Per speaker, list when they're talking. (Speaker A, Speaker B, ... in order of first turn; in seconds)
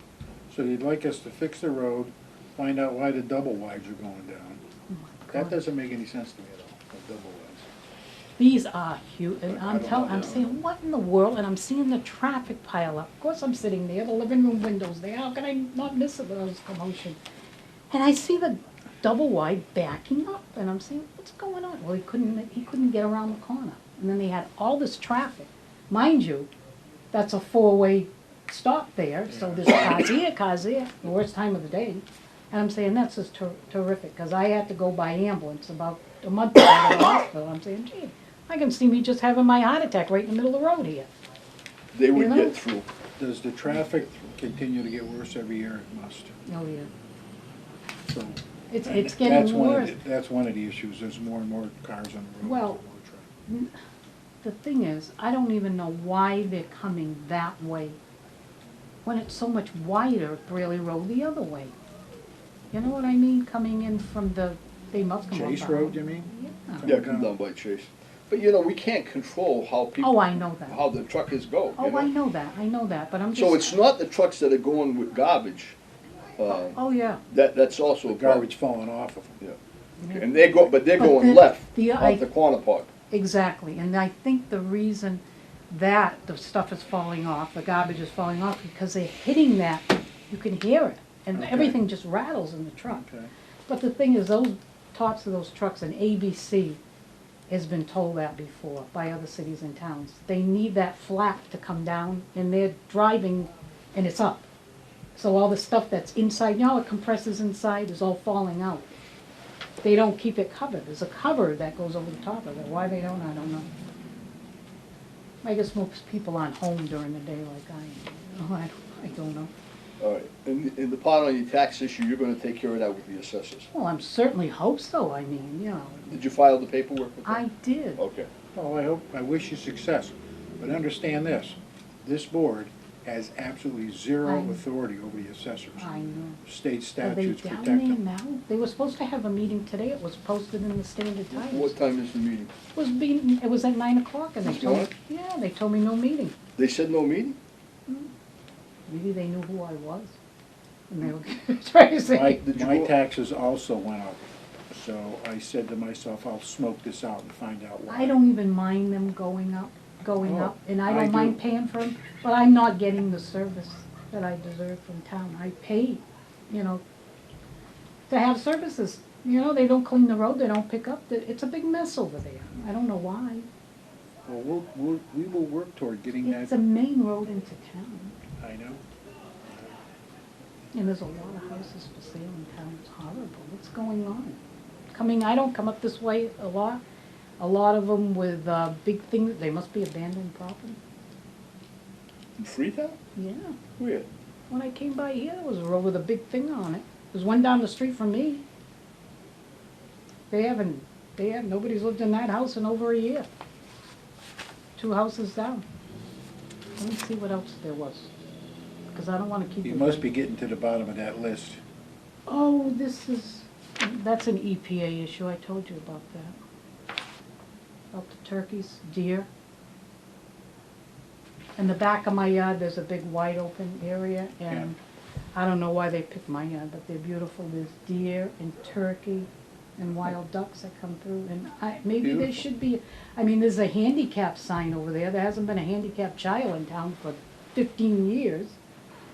Speaker A: 0.5-4.6, 5.3-7.7, 29.3-29.9, 43.2-46.4, 48.0-53.3, 65.3-67.3, 78.0-79.4, 91.3-91.8, 92.9-93.3, 128.5-135.9, 136.4-138.0, 152.1-158.2, 160.2-161.4, 174.2-176.6, 178.4-178.8, 179.5-179.8, 209.6-211.6, 224.5-224.7, 232.0-232.4
Speaker B: 4.9-5.6, 8.4-17.2, 17.9-26.5, 27.1-41.1, 42.1-42.6, 46.5-46.9, 48.7-50.0, 52.4-52.8, 53.5-53.7, 54.4-58.0, 59.0-61.7, 62.7-66.9, 70.0-70.8, 71.8-73.8, 76.5-77.2, 80.0-82.2, 83.1-93.0, 93.7-96.8, 97.5-104.5, 105.1-108.9, 109.8-113.7, 115.4-119.5, 123.7-126.2, 127.2-128.0, 134.2-134.6, 135.8-136.4, 137.0-141.7, 142.7-146.4, 148.9-150.2, 150.9-152.4, 157.9-166.8, 168.1-173.5, 176.2-178.1, 180.7-184.4, 184.9-186.8, 187.4-190.8, 193.2-193.6, 194.5-198.4, 200.3-203.3, 204.8-205.7, 206.8-208.1, 208.9-210.1, 212.3-216.3, 217.9-219.3, 221.6-224.8, 225.3-238.6
Speaker C: 9.6-10.5, 41.9-42.9, 43.7-44.1, 66.8-72.1, 73.3-75.8, 76.4-76.8, 77.3-78.5, 80.1-82.9, 120.0-123.7, 126.1-127.4, 128.0-128.3, 141.3-142.5, 144.4-144.9, 146.6-147.4, 152.4-152.9, 192.4-193.0, 193.8-194.1